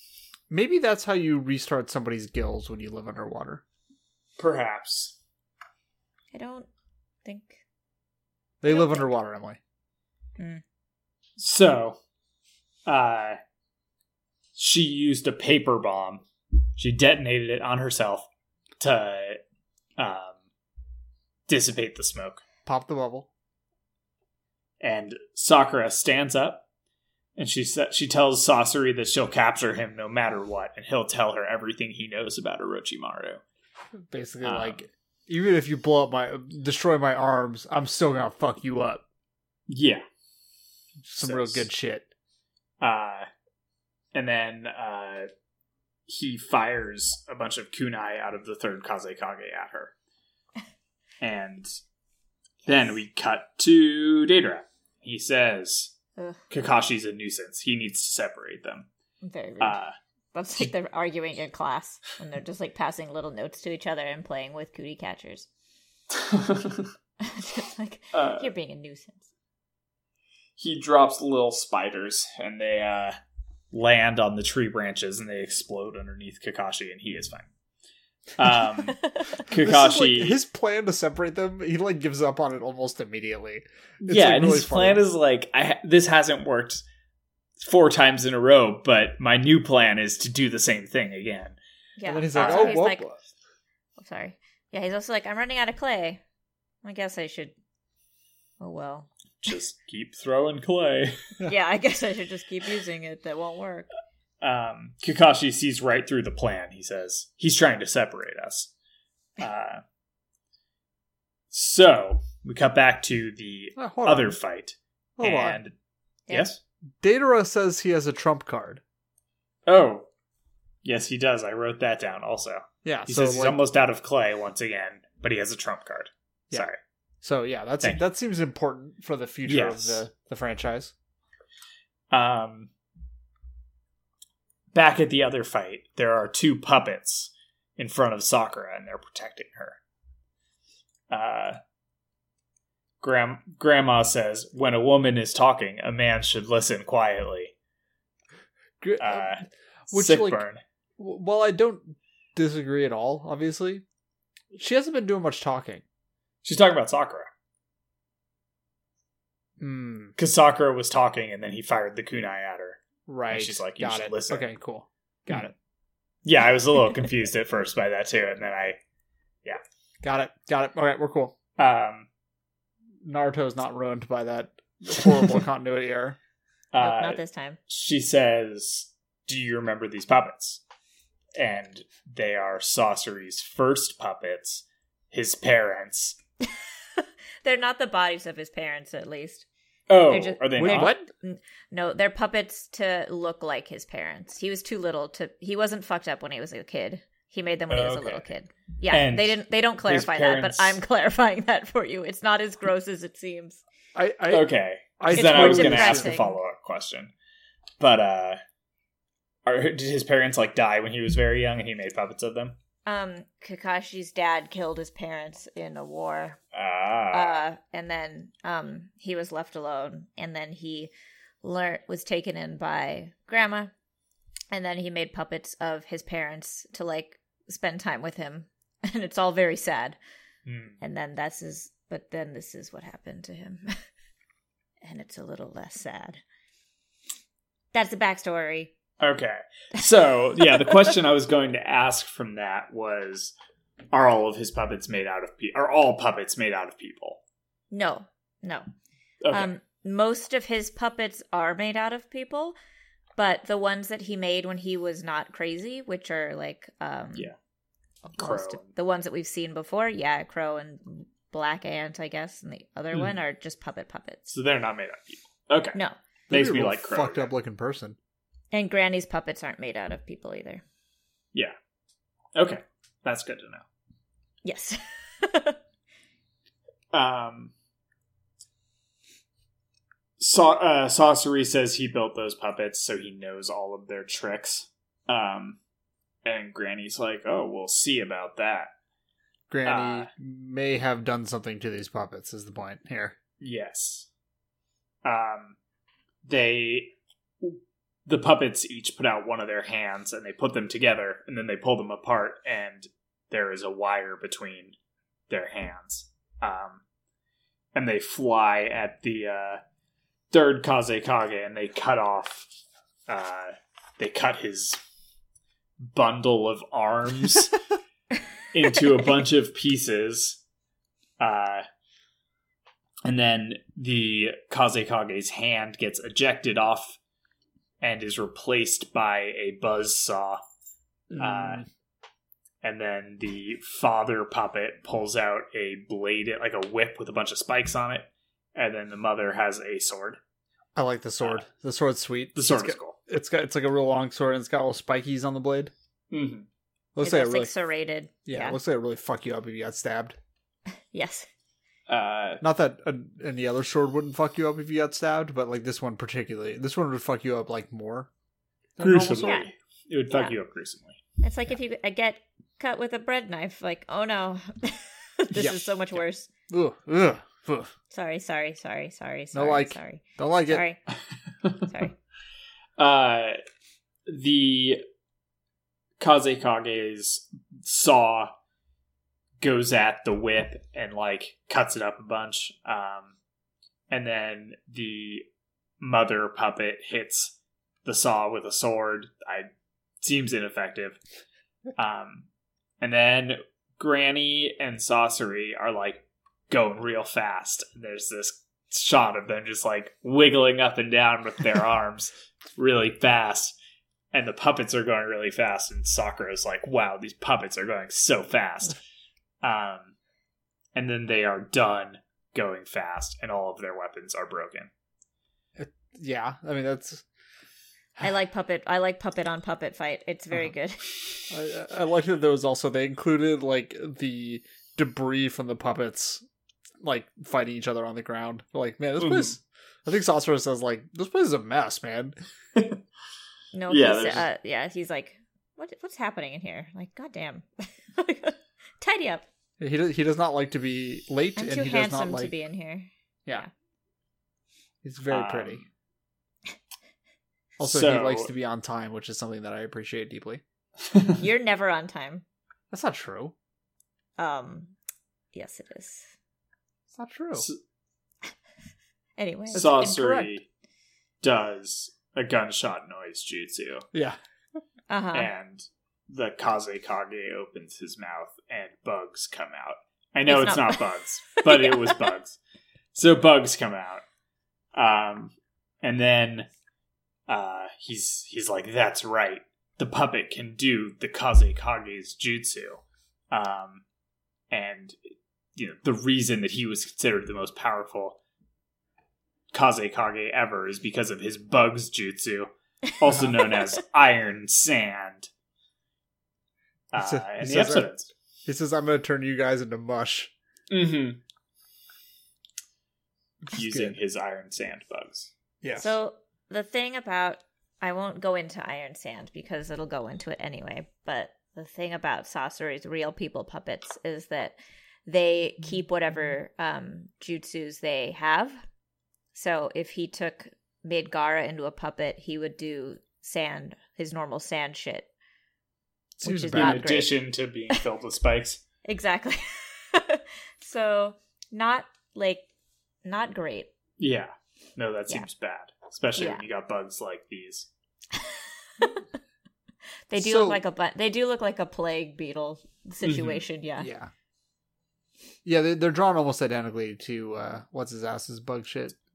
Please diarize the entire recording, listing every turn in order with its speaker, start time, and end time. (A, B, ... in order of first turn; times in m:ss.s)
0:00.5-0:03.6 A
0:04.4-0:05.2 B
0:06.3-0:06.7 C
0:07.2-0:07.6 C
0:08.6-0:09.6 A
0:08.7-0:09.1 C
0:10.4-0:10.6 C
0:11.4-0:12.0 B
0:12.9-0:13.4 B
0:14.6-0:16.2 B
0:16.8-0:18.3 B
0:18.8-0:19.4 B
0:20.0-0:20.4 B
0:21.5-0:22.4 B
0:22.7-0:23.3 A
0:24.8-0:26.7 B
0:27.4-0:33.4 B
0:34.0-0:39.0 A
0:34.4-0:34.8 B
0:39.7-0:40.0 B
0:41.1-0:42.1 A
0:41.2-0:41.7 B
0:42.8-0:43.3 B
0:44.1-0:45.3 B
0:46.1-0:50.0 B
0:51.2-0:51.8 B
0:52.6-0:55.9 B
0:56.2-0:56.4 C
0:56.5-0:58.9 B
0:59.2-0:59.8 C
0:59.6-1:00.0 B
1:00.3-1:05.5 C
1:06.1-1:06.9 B
1:07.2-1:09.3 C
1:08.1-1:08.5 B
1:10.6-1:13.2 B
1:13.7-1:17.5 B
1:18.4-1:20.4 B
1:18.9-1:19.4 C
1:19.5-1:25.0 A
1:24.0-1:26.8 B
1:27.6-1:31.6 B
1:32.0-1:33.0 C
1:32.1-1:33.2 A
1:32.4-1:32.8 B
1:34.0-1:36.2 C
1:36.8-1:37.5 C
1:38.6-1:39.1 C
1:39.4-1:41.3 B
1:41.5-1:43.9 C
1:44.4-1:48.7 B
1:49.4-1:49.8 B
1:51.5-1:55.7 B
1:53.8-1:54.4 A
1:55.2-1:55.6 A
1:56.3-1:56.6 B
1:57.0-1:58.8 A
1:59.7-2:00.1 B
2:00.8-2:06.8 B
2:02.8-2:03.6 A
2:07.2-2:10.9 A
2:09.5-2:10.0 B
2:12.1-2:12.7 B
2:14.7-2:19.8 B
2:21.1-2:21.6 B
2:23.0-2:27.5 B
2:28.8-2:30.4 A
2:29.0-2:30.6 B
2:31.0-2:33.8 A
2:34.5-2:35.8 A
2:36.4-2:37.3 B
2:39.6-2:40.2 A
2:40.2-2:44.5 B
2:43.1-2:45.5 A
2:46.2-2:48.8 B
2:50.0-2:51.4 A
2:51.6-2:52.1 B
2:53.0-2:56.2 A
2:56.7-3:00.6 B
2:56.8-2:57.6 C
3:01.4-3:06.2 B
3:06.5-3:09.5 C
3:09.9-3:10.9 B
3:10.1-3:23.6 C
3:10.6-3:11.1 A
3:17.7-3:18.2 B
3:18.9-3:20.8 B
3:24.0-3:26.2 A
3:24.3-3:27.1 B
3:25.1-3:26.4 C
3:27.8-3:28.4 B
3:29.4-3:32.6 B
3:32.9-3:36.4 C
3:36.5-3:37.4 B
3:37.1-3:43.7 C
3:44.5-3:50.0 C
3:50.5-3:50.8 B
3:50.8-3:53.8 C
3:54.8-3:56.2 C
3:57.7-3:58.7 C
3:59.0-4:03.4 B
4:00.4-4:00.9 C
4:03.9-4:07.2 B
4:07.7-4:08.7 C
4:09.2-4:09.5 B
4:09.3-4:12.6 C
4:13.2-4:17.3 C
4:18.1-4:24.3 C
4:18.2-4:18.7 B
4:24.3-4:25.8 B
4:26.3-4:28.0 A
4:26.3-4:27.3 B
4:28.5-4:30.6 C
4:32.4-4:33.6 B
4:34.4-4:35.6 C
4:36.9-4:37.5 B
4:40.2-4:45.6 B
4:46.2-4:48.7 B
4:49.5-4:53.2 A
4:49.7-4:50.1 B
4:53.4-4:54.1 B
4:55.0-4:55.6 B
4:56.2-5:04.8 B
5:05.3-5:06.8 B
5:07.8-5:09.6 B
5:10.3-5:12.5 B
5:13.1-5:14.8 B
5:15.8-5:17.5 B
5:18.5-5:20.4 B
5:21.2-5:21.6 B
5:23.0-5:27.0 B
5:27.8-5:30.4 B
5:31.1-5:31.7 A
5:31.2-5:31.6 B
5:32.6-5:40.2 B
5:40.8-5:45.7 A
5:42.4-5:43.0 B
5:46.1-5:46.5 B
5:47.0-5:47.5 A
5:47.0-5:48.6 C
5:48.3-5:50.2 A
5:50.7-5:51.3 C
5:51.9-5:52.4 B
5:52.4-5:58.1 A
5:58.8-5:59.4 A
5:58.8-6:01.0 B
5:59.2-5:59.5 C
6:01.2-6:06.3 C
6:05.3-6:07.7 A
6:07.9-6:10.8 C
6:09.3-6:10.7 A
6:11.6-6:12.0 C
6:12.8-6:13.4 B
6:14.1-6:14.8 B
6:16.0-6:18.3 B
6:19.4-6:23.2 B
6:23.9-6:25.3 B
6:25.8-6:29.5 B
6:30.0-6:31.0 B
6:31.8-6:32.3 B
6:32.8-6:43.5 B
6:44.1-6:48.8 B
6:49.4-6:50.0 B
6:50.8-6:54.7 B
6:55.6-6:57.0 A
6:58.0-7:00.9 C
7:01.3-7:06.2 A
7:06.8-7:12.2 A
7:09.0-7:09.3 B
7:12.6-7:12.8 B
7:13.5-7:19.3 C
7:13.7-7:14.3 B
7:19.6-7:22.4 A
7:21.4-7:23.5 C
7:24.8-7:25.6 A
7:25.1-7:25.7 B
7:27.6-7:28.3 B
7:27.6-7:30.4 A
7:31.2-7:32.2 C
7:32.7-7:33.3 A
7:34.2-7:34.7 C
7:35.3-7:36.2 C
7:37.0-7:37.5 A
7:39.2-7:40.0 C
7:39.5-7:40.5 B
7:39.5-7:40.4 A
7:41.2-7:43.9 B
7:44.9-7:45.3 C
7:45.1-7:52.4 B
7:50.3-7:52.2 C
7:52.9-7:54.0 B
7:54.8-7:56.5 B
7:57.3-8:03.8 B
8:04.5-8:05.0 B
8:05.6-8:08.2 B
8:09.5-8:15.3 B
8:16.9-8:18.1 B
8:17.0-8:17.9 A
8:18.5-8:20.3 A
8:20.7-8:21.2 B
8:23.5-8:23.9 A
8:23.5-8:25.3 B
8:25.6-8:26.0 A
8:25.8-8:38.6 C
8:39.3-8:45.1 C
8:46.2-8:47.1 C
8:46.2-8:47.0 A
8:46.5-8:48.6 B
8:48.8-8:52.5 C
8:53.0-8:53.7 C
8:54.0-8:57.7 B
8:56.2-8:56.4 C
8:58.1-8:59.1 C
9:00.1-9:03.9 C
9:00.2-9:00.6 A
9:03.0-9:03.4 B
9:03.8-9:04.1 A
9:05.4-9:09.0 A